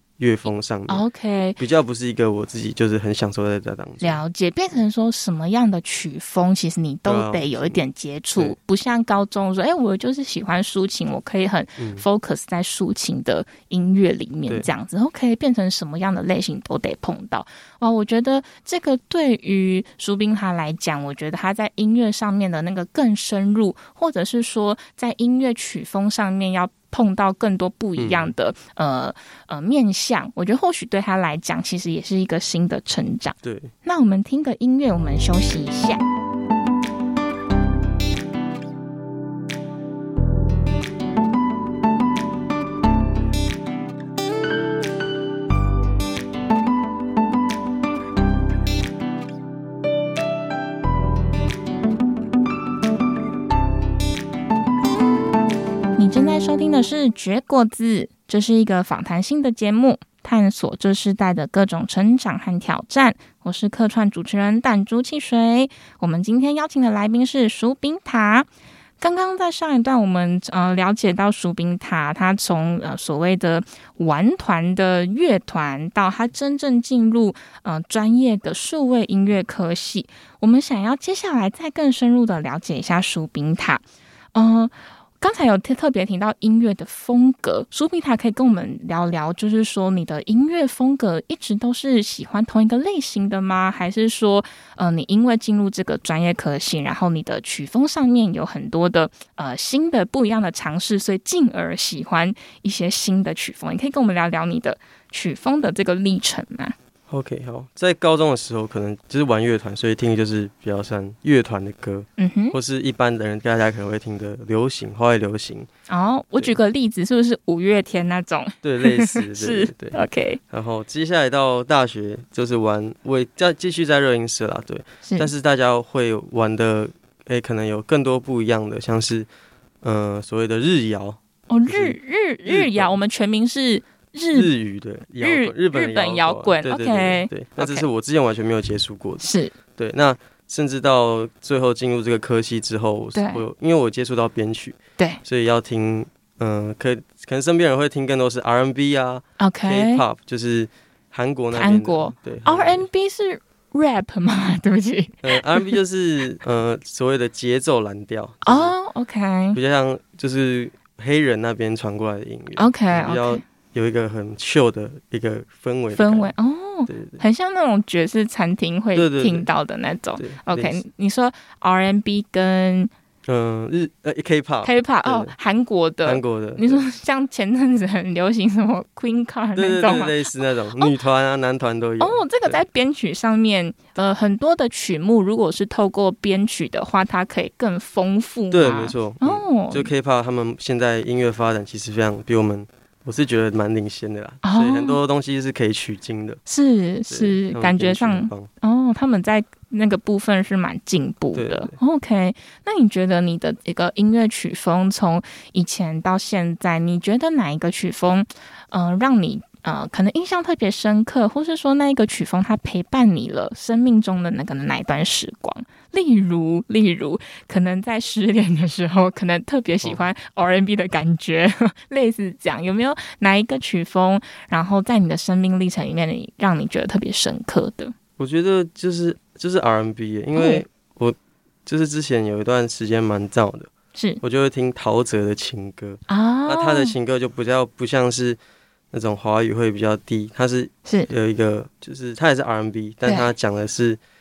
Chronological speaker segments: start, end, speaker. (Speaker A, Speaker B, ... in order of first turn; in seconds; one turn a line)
Speaker A: 0.2-1.0
Speaker B: 0.9-1.6
Speaker A: 1.6-4.2
Speaker B: 4.0-36.0
Speaker A: 7.0-7.8
Speaker A: 11.8-12.0
Speaker A: 28.0-28.3
Speaker A: 33.4-33.7
Speaker B: 56.0-68.5
Speaker B: 69.0-83.8
Speaker B: 84.3-106.7
Speaker A: 107.1-115.7
Speaker B: 112.2-112.5
Speaker B: 115.9-120.4
Speaker A: 118.6-129.3
Speaker B: 125.0-125.3
Speaker A: 129.8-132.9
Speaker B: 131.5-134.5
Speaker A: 134.3-152.8
Speaker B: 135.2-137.8
Speaker B: 139.2-139.5
Speaker B: 143.1-143.4
Speaker B: 149.4-150.0
Speaker B: 151.5-155.7
Speaker A: 155.2-158.7
Speaker B: 158.4-159.6
Speaker A: 159.5-166.3
Speaker B: 162.6-163.4
Speaker B: 165.9-172.9
Speaker A: 166.9-167.2
Speaker A: 168.9-169.5
Speaker A: 170.2-170.8
Speaker A: 173.2-175.3
Speaker B: 174.6-180.9
Speaker A: 176.0-176.8
Speaker A: 179.5-182.6
Speaker B: 182.0-189.9
Speaker A: 188.5-196.4
Speaker B: 194.4-195.0
Speaker B: 196.5-227.9
Speaker A: 197.1-198.5
Speaker A: 201.3-201.7
Speaker A: 228.2-233.7
Speaker B: 230.3-230.6
Speaker B: 233.9-234.2
Speaker A: 234.2-238.4
Speaker B: 236.1-236.9
Speaker A: 238.9-244.0
Speaker B: 243.0-243.3